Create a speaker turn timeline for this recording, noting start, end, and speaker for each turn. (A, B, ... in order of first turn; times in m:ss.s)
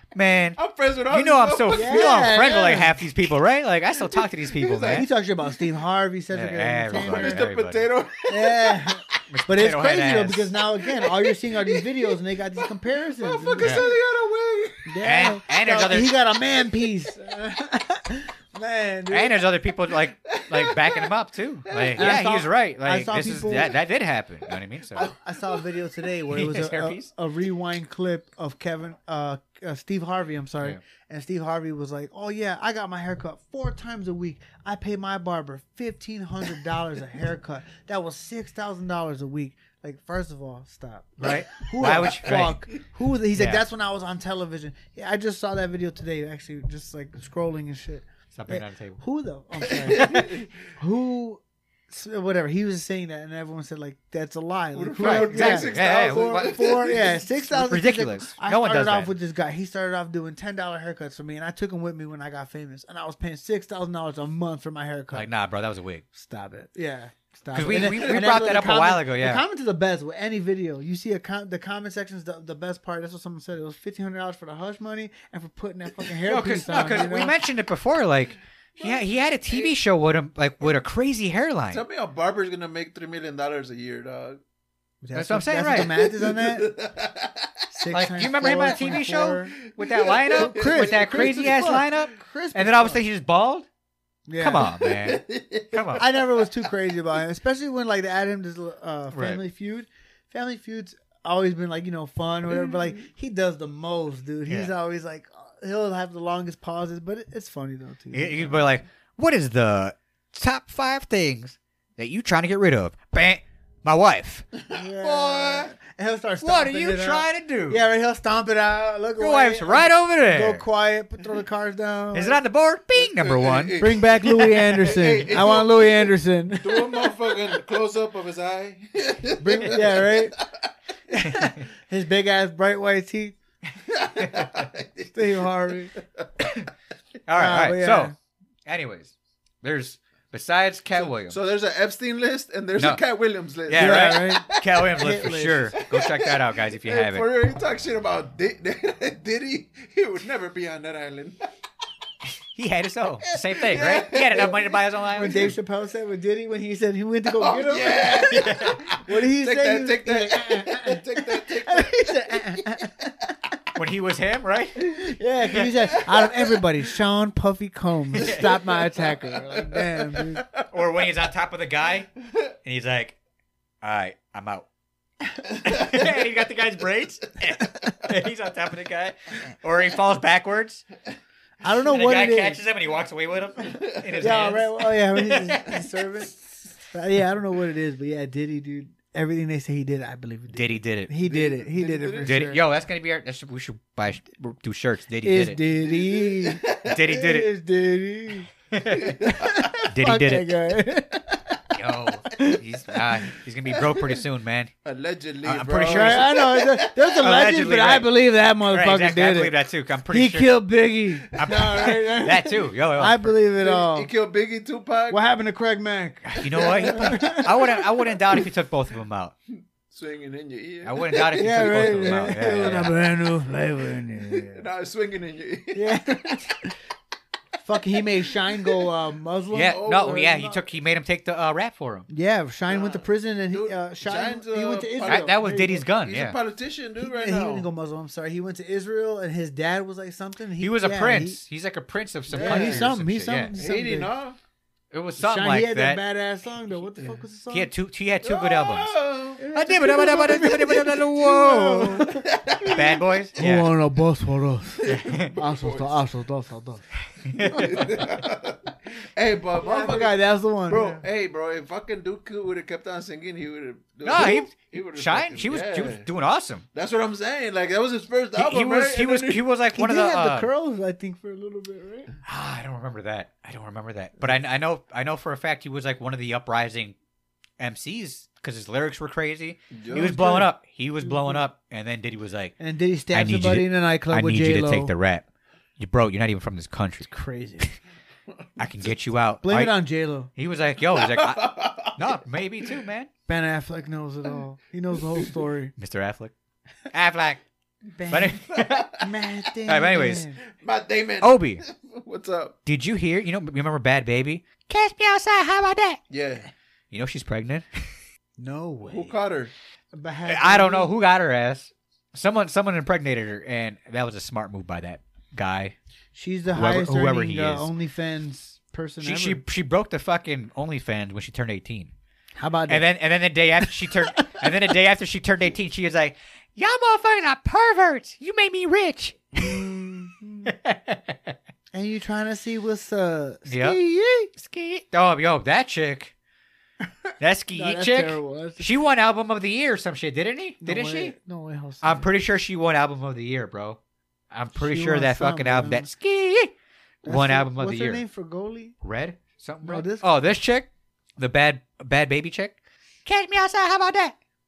0:00.1-0:05.1 A
0:00.6-0:02.3 B
0:01.7-0:03.0 C
0:04.2-0:05.1 B
0:04.9-0:07.5 C
0:06.3-0:07.9 A
0:06.9-0:09.0 B
0:08.3-0:14.0 C
0:09.3-0:10.5 A
0:10.8-0:14.9 B
0:13.6-0:13.9 A
0:14.8-0:19.4 C
0:15.0-0:16.1 A
0:19.1-0:25.1 A
0:20.3-0:21.1 B
0:21.7-0:22.0 B
0:22.0-0:23.7 C
0:25.0-0:25.6 B
0:25.0-1:05.3 C
0:26.3-0:27.1 A
0:41.2-0:42.7 A
0:43.4-0:43.6 A
0:48.3-0:49.0 A
0:49.7-0:50.5 B
0:54.7-0:57.2 B
0:55.0-0:56.8 A
0:57.5-0:59.1 A
1:05.1-1:06.0 A
1:06.1-1:17.4 C
1:07.5-1:09.4 A
1:07.7-1:08.2 B
1:16.2-1:21.8 A
1:18.8-1:19.7 B
1:21.7-1:24.4 B
1:25.0-1:26.7 C
1:25.1-1:25.9 A
1:25.9-1:27.5 B
1:27.7-1:29.6 C
1:27.9-1:33.6 A
1:29.8-1:31.7 B
1:30.3-1:33.0 C
1:34.3-1:34.7 C
1:34.4-1:36.0 A
1:34.7-1:36.4 B
1:36.0-1:48.7 C
1:39.1-1:39.4 A
1:48.1-1:54.5 A
1:54.6-1:55.6 B
1:54.7-2:02.4 C
1:56.4-1:57.8 A
1:59.2-2:00.6 A
2:02.1-2:03.8 A
2:03.0-2:06.1 B
2:03.8-2:07.4 C
2:06.6-2:10.3 B
2:09.4-2:10.4 C
2:11.1-2:13.4 C
2:13.9-2:16.0 B
2:14.2-2:14.6 A
2:15.1-2:15.9 C
2:17.2-2:18.1 A
2:17.3-2:18.1 C
2:18.6-2:21.4 A
2:21.0-2:24.6 B
2:22.8-2:23.0 A
2:23.7-2:27.3 A
2:23.7-2:25.7 C
2:25.9-2:31.4 B
2:32.5-2:35.4 A
2:33.4-2:35.5 B
2:35.1-2:43.1 C
2:37.3-2:42.7 B
2:38.3-2:38.7 A
2:43.7-2:44.9 A
2:44.8-2:50.4 C
2:45.9-2:46.6 B
2:48.2-2:48.5 A
2:48.3-2:50.5 B
2:50.7-2:52.1 A
2:52.6-2:53.2 A
2:53.8-2:54.6 A
2:55.6-3:00.8 A
3:01.6-3:02.6 C
3:01.9-3:05.8 A
3:03.8-3:04.3 B
3:04.2-3:12.6 C
3:10.5-3:11.1 A
3:11.2-3:12.5 B
3:12.2-3:15.6 A
3:15.2-3:18.5 C
3:15.9-3:16.9 B
3:16.8-3:17.5 A
3:18.7-3:19.2 A
3:18.9-3:19.7 B
3:19.2-3:21.6 C
3:19.8-3:20.5 A
3:21.7-3:24.7 A
3:22.3-3:22.6 C
3:24.8-3:27.2 B
3:25.4-3:26.3 A
3:25.9-3:29.6 C
3:27.2-3:28.1 A
3:28.7-3:30.5 A
3:30.1-3:34.1 C
3:31.4-3:33.3 A
3:33.6-3:35.2 B
3:35.1-3:38.2 C
3:36.3-3:39.3 A
3:36.6-3:37.0 B
3:39.9-3:42.2 B
3:40.8-3:42.9 A
3:41.3-3:44.6 C
3:44.3-3:46.1 B
3:45.7-3:46.7 C
3:47.6-3:50.5 C
3:49.5-3:52.1 A
3:49.6-3:50.6 B
3:52.1-3:55.8 C
3:52.7-3:57.7 B
3:55.0-3:56.4 A
3:57.0-4:01.4 C
4:00.6-4:03.5 A
4:02.3-4:02.9 B
4:02.3-4:04.1 C
4:03.6-4:04.4 B
4:04.9-4:06.0 A
4:05.2-4:07.7 C
4:07.5-4:08.9 A
4:08.2-4:09.4 B
4:09.4-4:12.8 C
4:09.5-4:12.1 A
4:12.0-4:12.8 B
4:12.6-4:13.7 A
4:13.4-4:16.8 C
4:14.8-4:16.0 B
4:14.8-4:15.3 A
4:17.2-4:17.7 A
4:17.4-4:18.2 C
4:17.6-4:18.6 B
4:19.1-4:26.1 B
4:19.6-4:21.0 C
4:24.0-4:26.6 A
4:26.7-4:29.4 B
4:28.4-4:30.5 A
4:29.7-4:32.1 C
4:32.2-4:36.9 A
4:37.6-4:42.5 A
4:39.7-4:40.1 B
4:39.9-4:41.4 C
4:42.6-4:44.9 C
4:43.1-4:45.2 A
4:45.8-4:47.7 A
4:47.1-4:47.7 C
4:48.6-4:49.8 A
4:49.4-4:50.3 C
4:50.3-4:53.1 A
4:50.9-4:52.0 B
4:53.3-4:55.7 C
4:55.8-4:56.3 A
4:56.9-4:57.4 A
4:57.9-5:00.4 C
4:58.1-4:59.0 A
4:58.5-4:59.0 B
4:59.6-5:00.3 A
5:00.5-5:02.6 B
5:01.2-5:01.6 A
5:02.6-5:06.0 A
5:06.1-5:06.5 B
5:06.9-5:07.9 A
5:08.4-5:09.2 C
5:08.9-5:09.5 B
5:09.9-5:10.9 C
5:10.3-5:15.8 A
5:16.1-5:19.4 C
5:16.5-5:17.7 A
5:19.0-5:21.9 A
5:22.4-5:22.9 C
5:22.7-5:29.6 A
5:23.6-5:24.5 C
5:29.3-5:30.5 C
5:30.4-5:31.4 A
5:31.7-5:34.3 C
5:33.4-5:33.8 A
5:34.3-5:36.1 A
5:37.2-5:41.2 A
5:37.5-5:38.7 C
5:40.6-5:42.1 C
5:41.8-5:43.8 A
5:44.3-5:46.5 A
5:44.5-5:45.9 C
5:47.0-5:48.8 C
5:47.0-5:48.0 A
5:48.8-5:54.1 A
5:49.6-5:50.1 C